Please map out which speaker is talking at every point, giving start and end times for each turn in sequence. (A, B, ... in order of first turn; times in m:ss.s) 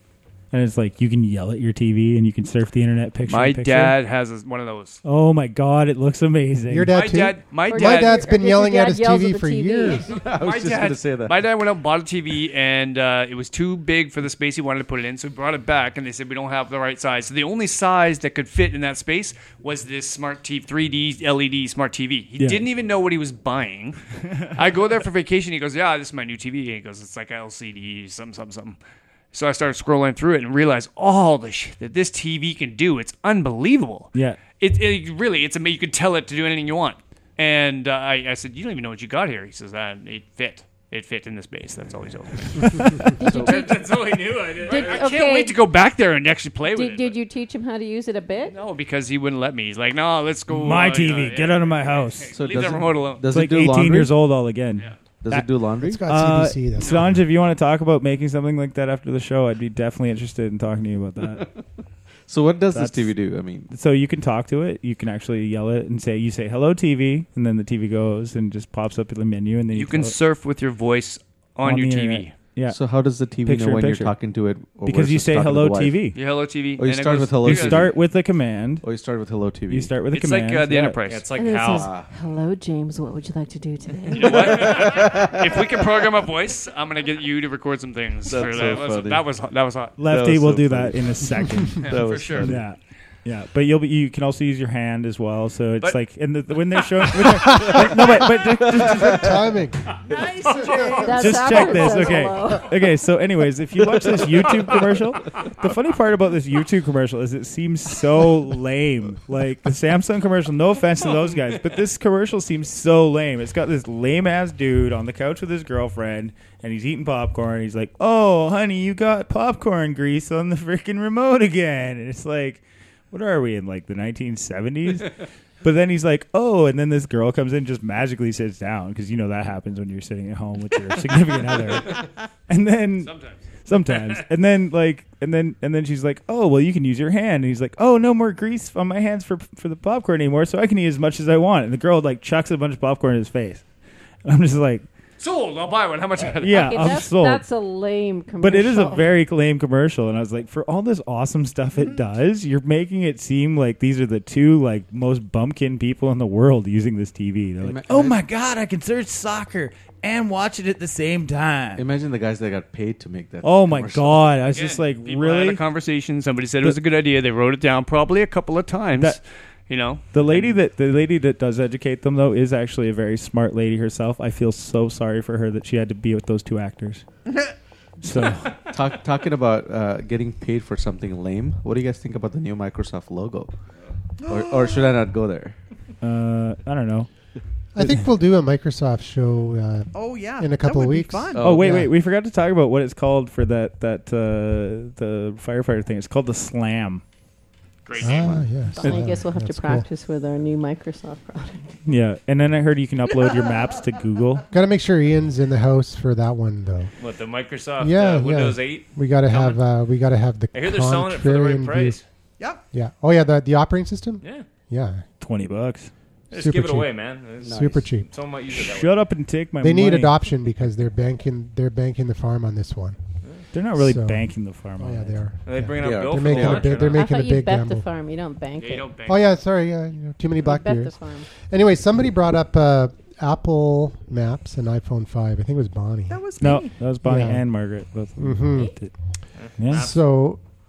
0:00.5-0:04.0 A
0:03.2-0:05.0 B
0:05.0-0:07.0 A
0:06.7-0:10.1 C
0:06.9-0:08.3 B
0:07.7-0:10.1 D
0:10.1-0:11.6 E
0:10.4-0:24.0 B
0:22.4-0:22.6 A
0:24.5-0:28.8 B
0:29.3-0:47.2 B
0:34.1-0:34.4 A
0:43.2-0:43.9 D
0:43.2-0:43.6 E
0:43.5-0:45.1 F
0:44.6-0:45.6 D
0:46.7-0:48.6 D
0:48.4-0:53.3 B
0:50.5-0:52.3 A
0:52.3-0:54.2 E
0:53.3-1:01.5 A
0:55.2-0:56.1 E
0:55.8-0:57.0 C
0:56.8-0:57.1 B
1:02.3-1:03.7 E
1:02.7-1:10.2 A
1:09.7-1:12.4 B
1:11.6-1:14.1 A
1:12.6-1:16.1 E
1:14.8-1:16.2 A
1:16.1-1:17.9 B
1:16.8-1:18.2 E
1:17.4-1:18.9 A
1:18.8-1:20.0 E
1:19.7-1:21.0 A
1:20.1-1:21.3 B
1:21.0-1:21.9 F
1:21.3-1:24.8 D
1:21.7-1:22.1 E
1:24.1-1:30.0 B
1:24.2-1:25.6 E
1:28.3-1:29.3 E
1:30.0-1:39.4 A
1:30.0-1:32.6 E
1:31.8-1:32.5 B
1:36.6-1:37.6 B
1:37.5-1:39.3 E
1:38.8-1:39.8 C
1:40.1-1:42.1 B
1:41.0-1:42.6 D
1:41.2-2:23.6 A
2:11.8-2:12.1 B
2:13.0-2:13.5 B
2:24.2-2:24.8 A
2:25.2-2:27.0 B
2:26.4-2:27.4 A
2:26.5-2:29.1 D
2:28.4-2:41.8 A
2:37.6-2:38.2 E
2:41.8-2:44.4 E
2:43.4-2:45.6 A
2:44.4-2:50.6 B
2:50.1-2:57.1 A
2:57.3-2:57.5 G
2:58.0-2:58.6 A
2:58.7-3:03.6 E
3:04.2-3:04.9 G
3:04.2-3:05.6 E
3:06.0-3:07.1 A
3:07.7-3:11.9 C
3:07.8-3:08.0 A
3:09.9-3:11.4 G
3:11.4-3:17.0 A
3:17.8-3:18.4 B
3:18.0-3:18.4 E
3:18.0-3:19.8 C
3:18.8-3:19.1 A
3:18.8-3:21.7 D
3:21.8-3:24.5 A
3:24.5-3:26.9 C
3:27.0-3:29.6 F
3:27.8-3:32.0 C
3:30.5-3:32.0 F
3:32.7-3:35.0 C
3:34.2-3:34.5 F
3:35.2-3:35.9 A
3:36.3-3:39.0 F
3:36.3-3:36.9 C
3:37.4-3:37.8 E
3:37.4-3:38.1 C
3:38.5-3:40.1 A
3:39.6-3:43.0 C
3:43.5-3:45.2 A
3:43.7-3:44.2 C
3:44.8-3:47.8 C
3:45.4-3:47.0 F
3:45.8-3:46.9 E
3:46.9-3:48.9 D
3:48.6-3:49.2 B
3:49.0-3:56.2 C
3:50.4-3:51.3 D
3:56.1-3:56.8 G
3:56.4-3:58.9 A
3:57.0-3:57.4 C
3:58.2-3:58.7 C
3:59.4-4:00.1 F
3:59.6-3:59.9 A
3:59.6-4:00.4 C